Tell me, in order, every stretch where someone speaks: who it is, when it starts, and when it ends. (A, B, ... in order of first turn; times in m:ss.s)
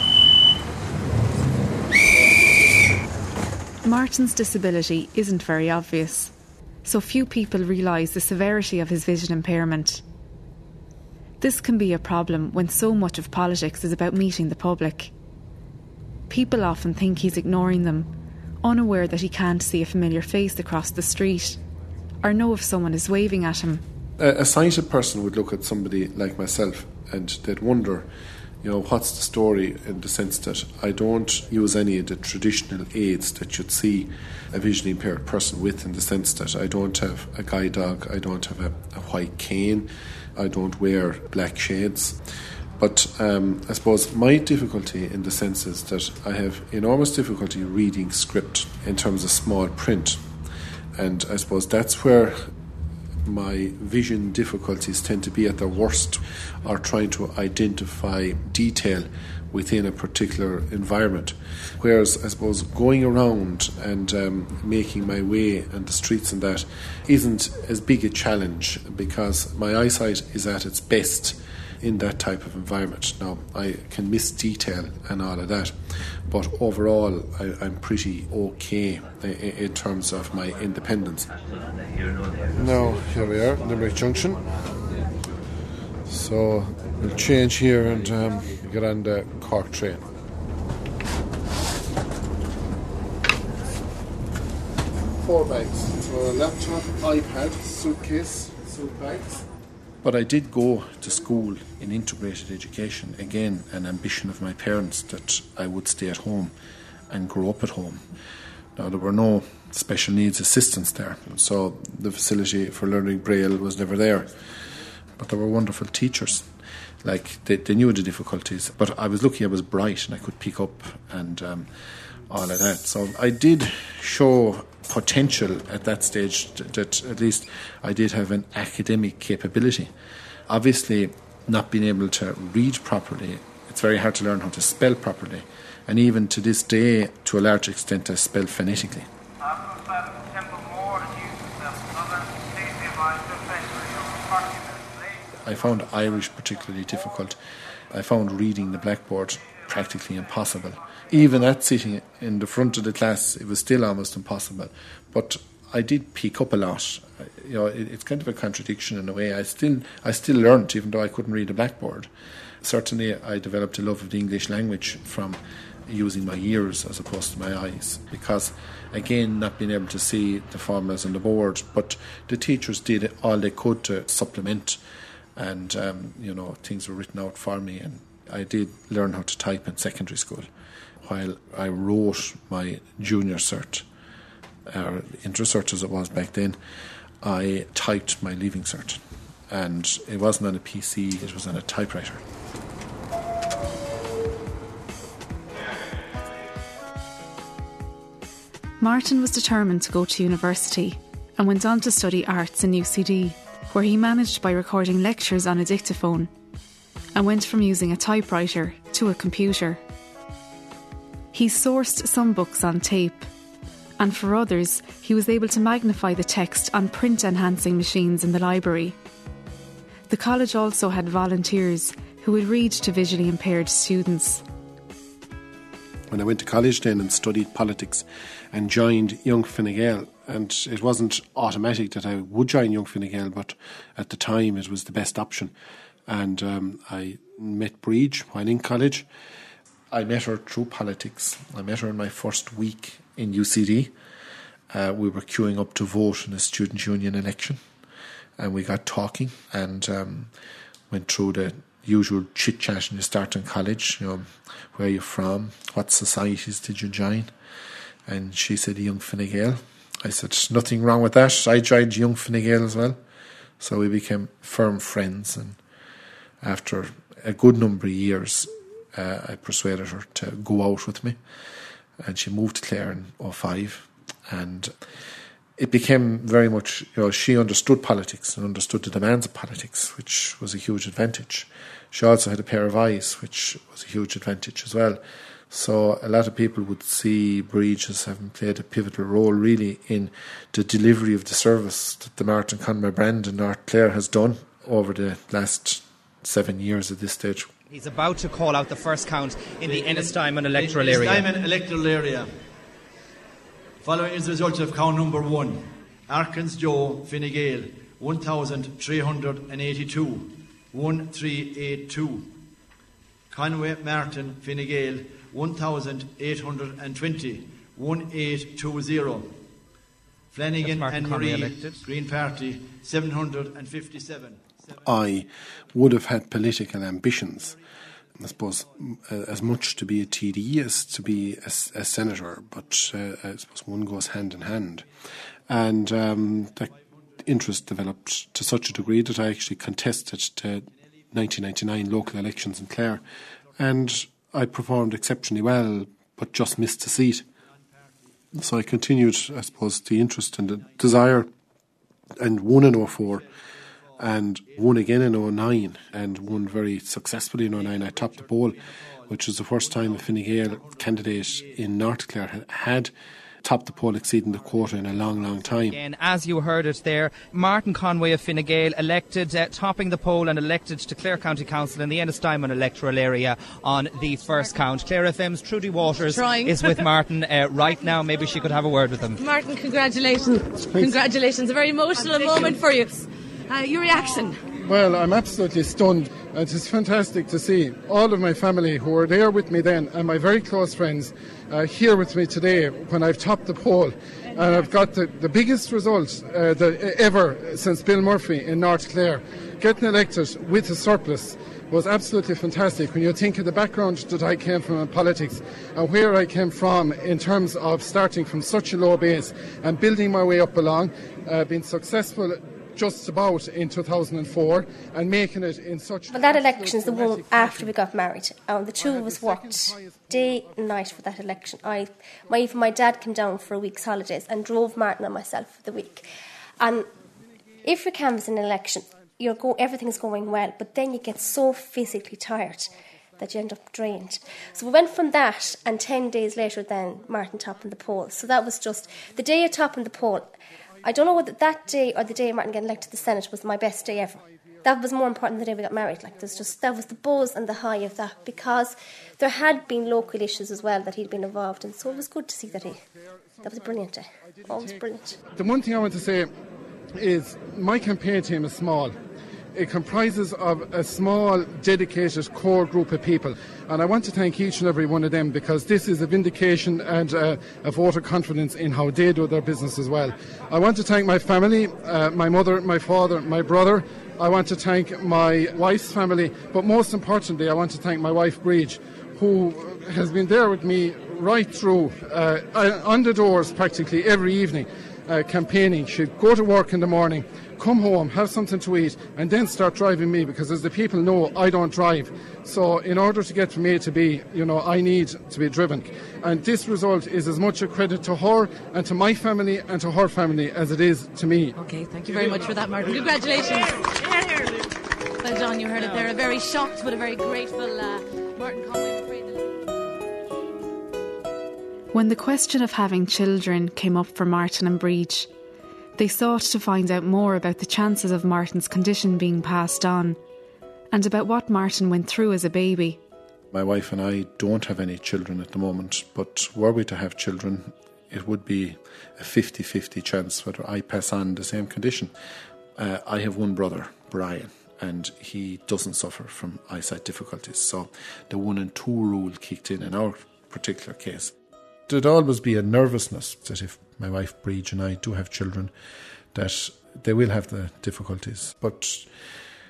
0:03.8-0:06.3 A
0:06.8-0:10.0 A
0:11.4-0:15.1 A
0:16.3-0:18.1 A
0:18.6-0:21.6 A
0:22.2-0:23.8 A
0:24.2-0:28.1 B
0:28.6-0:42.2 B
0:42.8-0:50.3 B
0:51.0-0:52.5 B
0:53.2-1:21.3 B
1:22.5-1:24.5 B
1:26.1-1:30.1 B
1:35.1-1:39.5 B
1:40.0-1:46.5 B
1:47.1-1:48.1 B
1:48.8-1:54.5 B
1:55.2-1:56.5 B
1:57.0-2:09.9 B
2:10.5-2:19.1 B
2:25.4-2:27.4 B
2:27.9-2:42.1 B
2:42.6-2:54.8 B
2:55.4-3:00.5 B
3:01.0-3:03.9 B
3:04.7-3:06.6 B
3:07.2-3:12.2 B
3:18.8-3:26.3 A
3:27.2-3:29.8 A
3:31.3-3:33.3 A
3:34.0-3:39.0 A
3:40.1-3:44.4 A
3:46.1-3:55.5 B
3:56.1-3:59.1 B
3:59.9-4:03.9 B
4:04.7-4:07.6 B
4:08.4-4:10.3 B
4:10.9-4:17.3 B
4:18.1-4:23.0 B
4:23.6-4:25.6 B
4:26.4-4:31.2 B
4:32.0-4:34.8 B
4:35.6-4:57.5 B
4:57.7-5:01.3 C
4:59.6-5:02.3 D
5:03.8-5:12.4 D
5:13.3-5:19.4 D
5:20.3-5:24.5 D
5:20.6-5:21.8 C
5:24.8-5:27.6 B
5:28.2-5:34.9 B
5:35.5-5:43.0 B
5:43.6-5:47.2 B
5:48.3-5:51.3 B
5:52.2-5:53.2 B
5:53.0-5:53.3 D
5:54.0-6:02.9 B
5:57.6-6:01.4 D
6:03.4-6:05.8 B
6:05.7-6:19.2 C
6:16.1-6:16.9 E
6:19.2-6:24.4 E
6:20.7-6:21.0 F
6:24.6-6:57.7 F
6:34.4-6:34.7 E
6:56.1-7:06.1 G
7:06.6-7:06.9 G
7:07.6-7:20.3 G
7:20.8-7:32.8 G
7:33.4-7:35.2 G
7:35.3-7:36.3 F
7:37.0-7:39.0 F
7:39.5-8:21.6 F
8:21.6-8:24.6 E
8:25.2-8:29.6 E
8:31.9-8:35.3 A
8:36.0-8:40.2 A
8:40.9-8:43.0 A
8:43.5-8:52.1 B
8:52.8-9:01.3 B
9:01.9-9:05.7 B
9:06.3-9:09.1 B